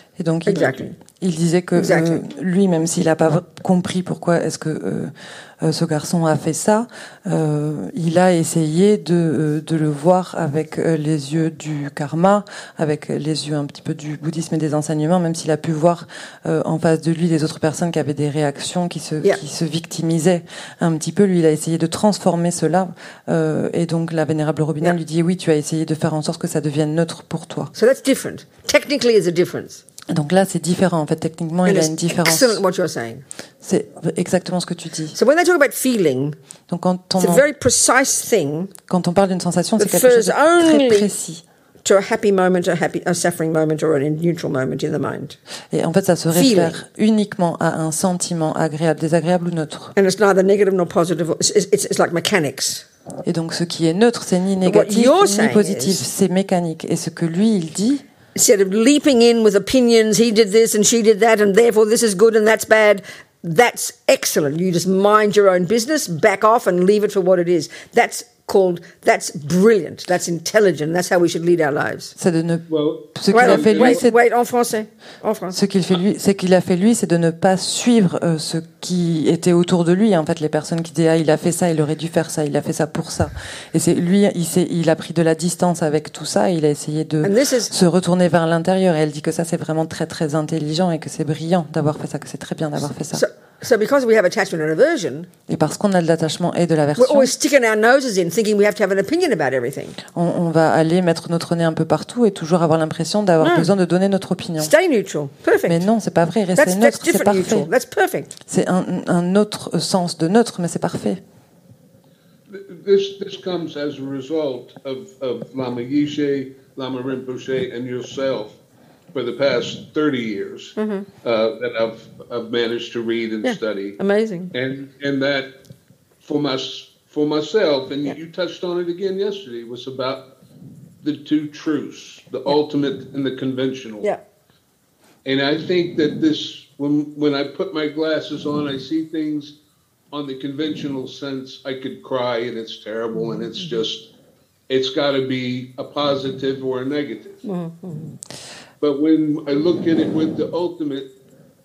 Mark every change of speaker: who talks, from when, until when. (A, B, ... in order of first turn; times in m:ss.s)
0:00.2-0:27.7 A
0:00.4-0:01.0 B
0:01.8-0:02.2 B
0:27.7-0:29.8 B
0:30.1-0:32.6 A
0:31.6-0:33.2 B
0:33.6-0:35.2 A
0:35.1-0:36.4 B
0:36.7-0:37.4 A
0:37.2-0:38.7 B
0:38.9-0:41.4 A
0:39.8-0:41.1 B
0:41.8-0:45.4 B
0:45.7-0:50.0 A
0:46.3-0:46.8 B
0:50.0-0:52.8 B
0:53.2-0:58.0 A
0:54.6-0:56.0 B
0:58.3-1:12.1 B
1:12.2-1:14.2 A
1:12.7-1:14.0 C
1:13.3-1:15.6 B
1:15.5-1:33.2 A
1:27.2-1:27.7 B
1:33.1-1:35.3 B
1:35.5-1:37.3 A
1:37.0-1:40.0 B
1:40.1-1:44.7 A
1:43.4-1:43.7 B
1:44.6-1:45.9 B
1:45.7-1:47.7 A
1:46.6-1:48.3 B
1:48.5-1:51.2 A
1:52.5-1:58.6 C
1:59.1-2:04.0 C
2:00.8-2:01.1 B
2:03.4-2:04.5 B
2:04.5-2:05.5 C
2:06.2-2:10.3 C
2:11.0-2:14.1 C
2:15.2-2:19.5 C
2:20.1-2:24.1 C
2:24.7-2:27.4 C
2:27.4-2:28.1 B
2:28.8-2:31.1 C